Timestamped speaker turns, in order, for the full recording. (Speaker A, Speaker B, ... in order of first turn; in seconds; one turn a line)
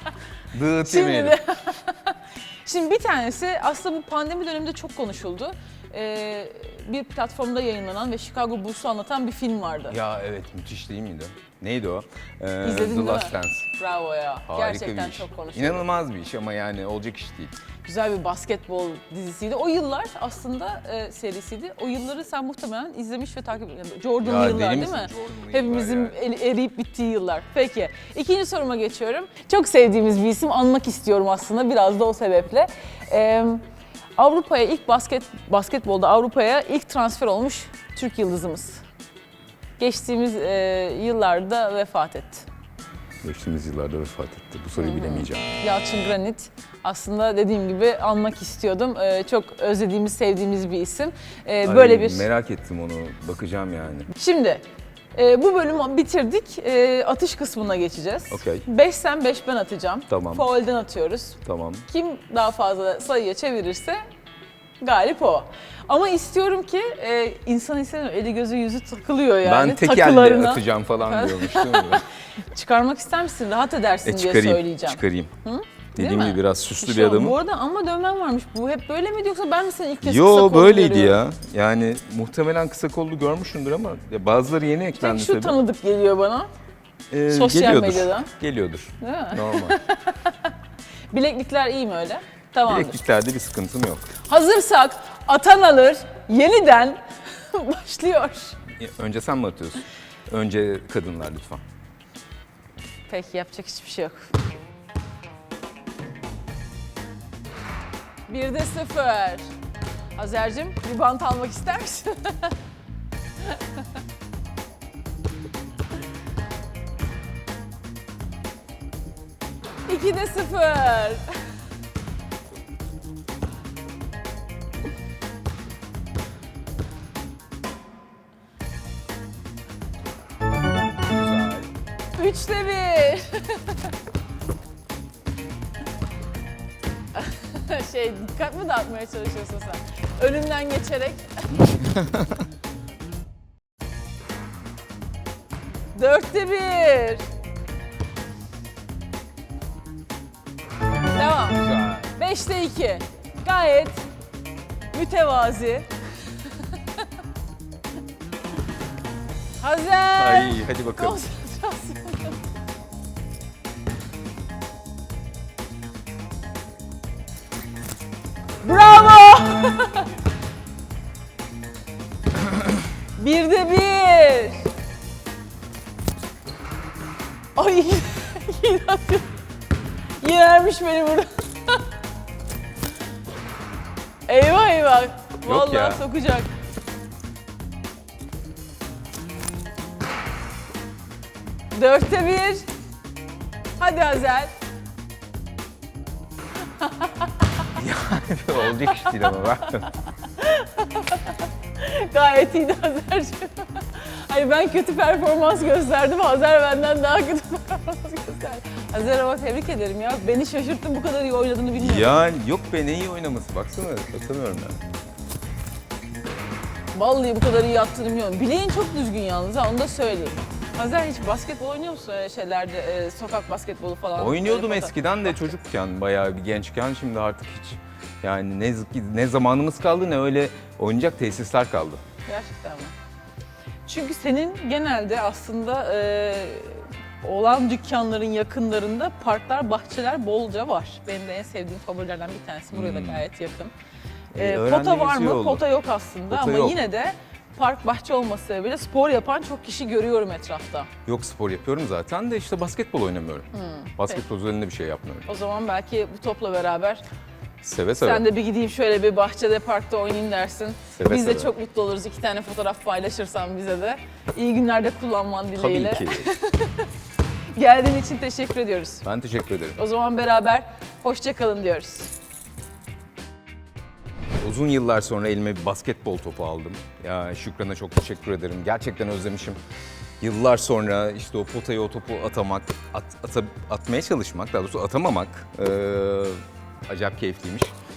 Speaker A: 0.5-1.4
Speaker B: 0.9-10.0
Speaker A: 9.9-13.7
Speaker B: 12.6-15.9
Speaker A: 14.5-17.6
Speaker B: 17.9-33.6
Speaker A: 24.2-26.2
Speaker B: 34.2-38.8
Speaker B: 39.8-42.5
Speaker A: 43.2-45.5
Speaker B: 44.8-52.3
Speaker A: 51.6-54.1
Speaker B: 54.1-64.0
Speaker A: 58.3-58.6
Speaker A: 60.1-60.5
Speaker A: 61.5-61.9
Speaker B: 64.8-81.2
Speaker A: 69.4-72.0
Speaker A: 74.0-75.3
Speaker A: 76.0-77.4
Speaker A: 80.0-85.6
Speaker B: 84.9-86.5
Speaker A: 87.1-89.8
Speaker B: 87.3-88.3
Speaker B: 89.0-90.5
Speaker B: 91.1-93.0
Speaker A: 92.7-94.1
Speaker B: 94.3-98.6
Speaker A: 98.8-101.6
Speaker B: 103.1-104.3
Speaker B: 108.3-109.5
Speaker B: 110.2-112.5
Speaker B: 119.9-121.3
Speaker A: 131.1-131.7
Speaker B: 132.2-133.9
Speaker B: 137.2-141.7
Speaker B: 145.9-147.2
Speaker B: 151.1-154.1
Speaker A: 151.6-152.0
Speaker B: 154.9-155.9
Speaker B: 159.6-162.4
Speaker A: 160.2-161.2
Speaker B: 168.6-170.1
Speaker B: 173.2-174.7
Speaker B: 177.6-179.3
Speaker B: 180.2-181.8
Speaker B: 184.3-186.5
Speaker A: 185.4-186.0
Speaker B: 191.7-192.7
Speaker B: 193.8-194.5
Speaker A: 197.7-199.9
Speaker B: 198.8-199.6
Speaker B: 200.4-212.2
Speaker A: 211.8-214.8
Speaker B: 216.9-225.4
Speaker A: 224.2-232.0
Speaker B: 232.3-232.9
Speaker B: 233.9-243.7
Speaker A: 242.7-243.3
Speaker A: 244.3-245.6
Speaker B: 244.4-250.9
Speaker A: 246.3-246.8
Speaker A: 251.1-255.3
Speaker B: 253.5-254.2
Speaker B: 255.3-257.0
Speaker A: 257.6-258.2
Speaker B: 258.0-266.9
Speaker A: 261.0-261.5
Speaker A: 265.6-266.3
Speaker B: 267.6-269.1
Speaker A: 269.1-269.8
Speaker B: 269.8-272.1
Speaker A: 274.4-279.6
Speaker A: 280.2-287.7